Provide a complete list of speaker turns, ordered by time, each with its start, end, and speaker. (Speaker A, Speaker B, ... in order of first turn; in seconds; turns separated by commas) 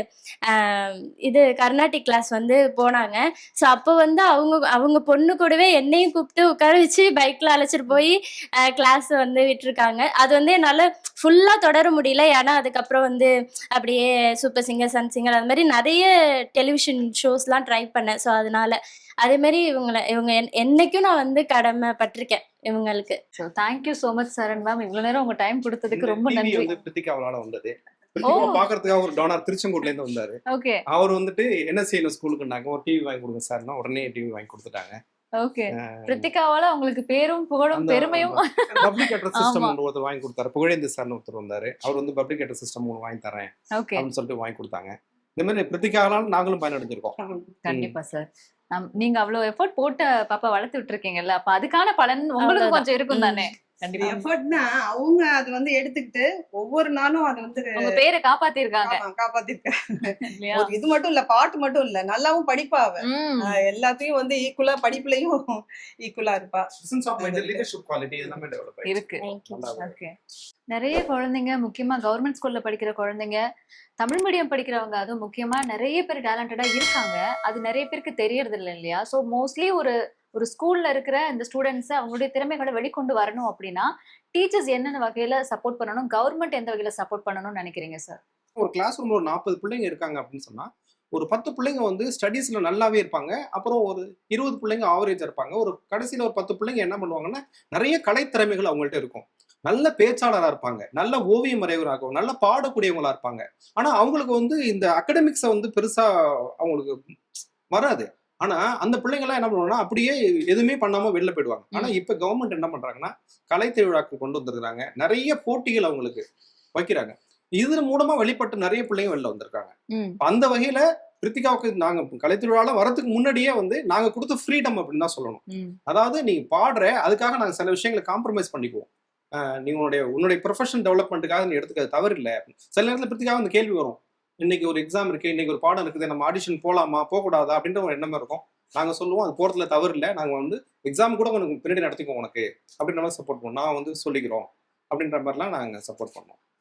Speaker A: 0.5-23.2, Speaker B: 23.4-26.7, Speaker C: 25.9-30.4, Speaker B: 28.2-28.7, Speaker B: 30.5-30.8, Speaker C: 30.9-35.0, Speaker B: 35.4-39.8, Speaker C: 35.8-36.3, Speaker C: 37.7-47.1, Speaker B: 43.8-44.1, Speaker B: 47.6-54.2, Speaker A: 52.4-53.5, Speaker D: 54.0-58.0, Speaker B: 57.8-59.0, Speaker D: 58.8-67.6, Speaker B: 60.2-60.7, Speaker B: 63.0-63.6, Speaker C: 66.8-70.0, Speaker B: 68.9-69.2, Speaker A: 69.2-69.7, Speaker B: 69.7-70.1, Speaker B: 70.7-73.4, Speaker B: 74.0-88.2, Speaker C: 88.6-106.1, Speaker C: 106.6-107.0, Speaker C: 107.7-116.2, Speaker C: 116.8-128.9, Speaker B: 119.9-120.2, Speaker B: 125.5-125.8, Speaker C: 129.4-146.4